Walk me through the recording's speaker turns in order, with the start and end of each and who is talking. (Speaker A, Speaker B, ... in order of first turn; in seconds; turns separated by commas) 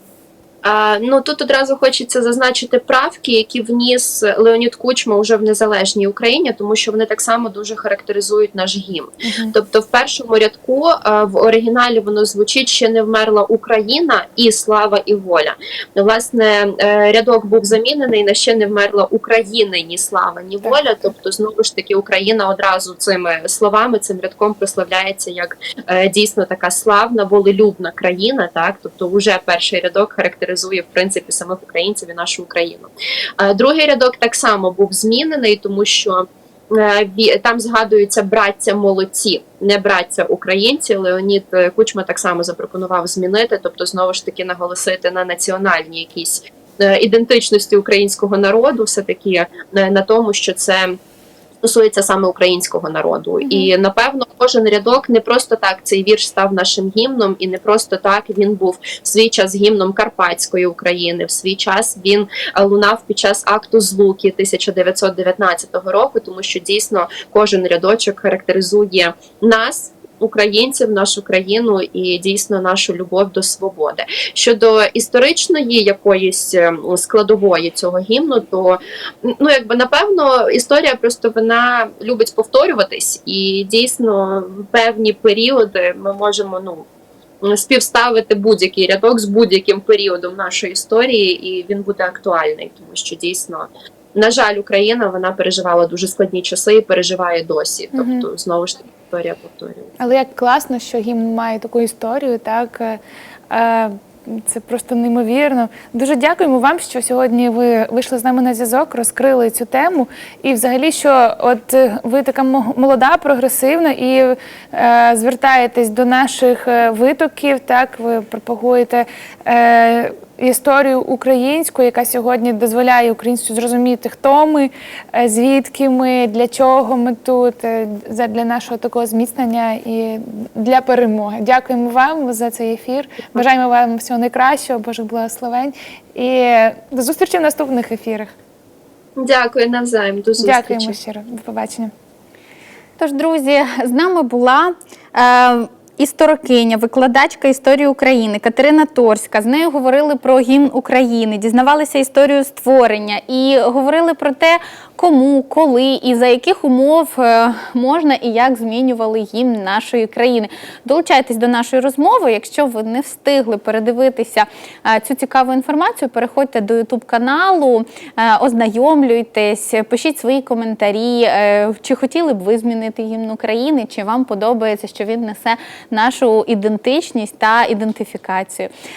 Speaker A: 0.6-51.0, Speaker B: 9.2-9.5, Speaker A: 51.6-86.9, Speaker B: 53.4-53.7, Speaker A: 87.4-99.9, Speaker B: 97.9-98.3, Speaker B: 100.0-103.0, Speaker B: 103.5-138.3, Speaker A: 139.2-141.0, Speaker B: 140.4-141.9, Speaker C: 143.0-178.7